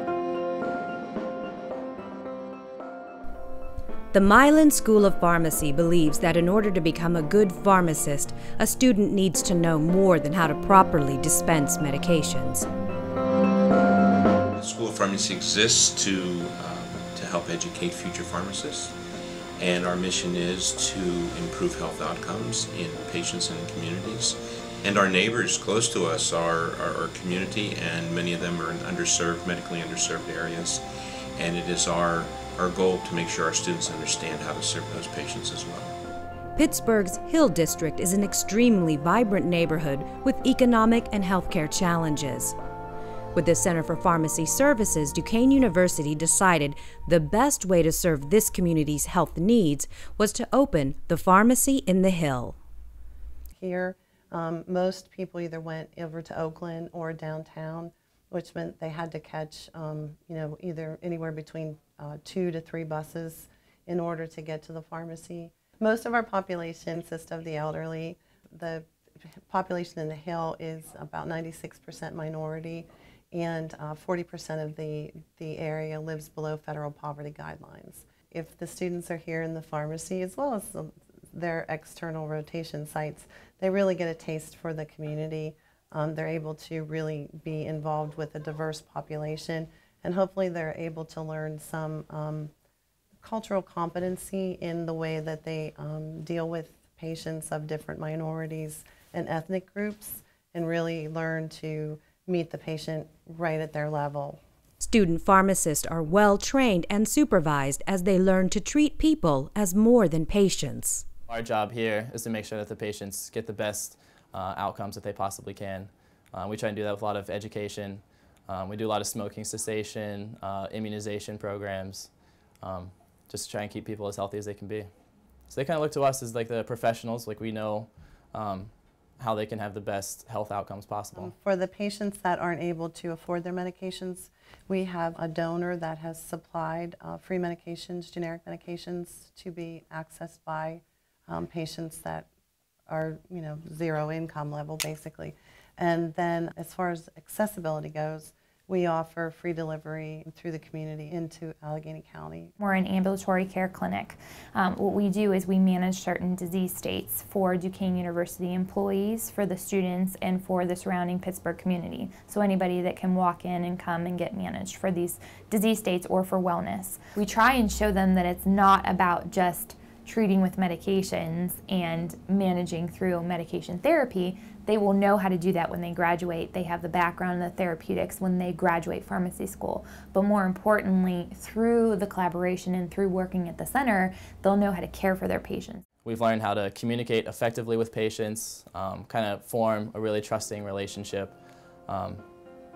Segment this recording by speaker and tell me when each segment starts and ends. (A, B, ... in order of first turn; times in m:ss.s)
0:04.1-0:12.7 A
0:14.5-0:19.0 B
0:19.6-0:36.0 B
0:36.6-0:42.6 A
0:43.3-0:52.6 A
0:53.6-1:08.9 C
1:09.5-1:32.5 C
1:33.2-1:44.4 C
1:44.8-1:51.1 A
1:51.3-2:02.1 D
2:02.6-2:04.9 D
2:05.5-2:11.3 D
2:11.1-2:22.3 C
2:22.9-2:32.5 C
2:32.6-3:05.8 E
3:06.0-3:12.3 D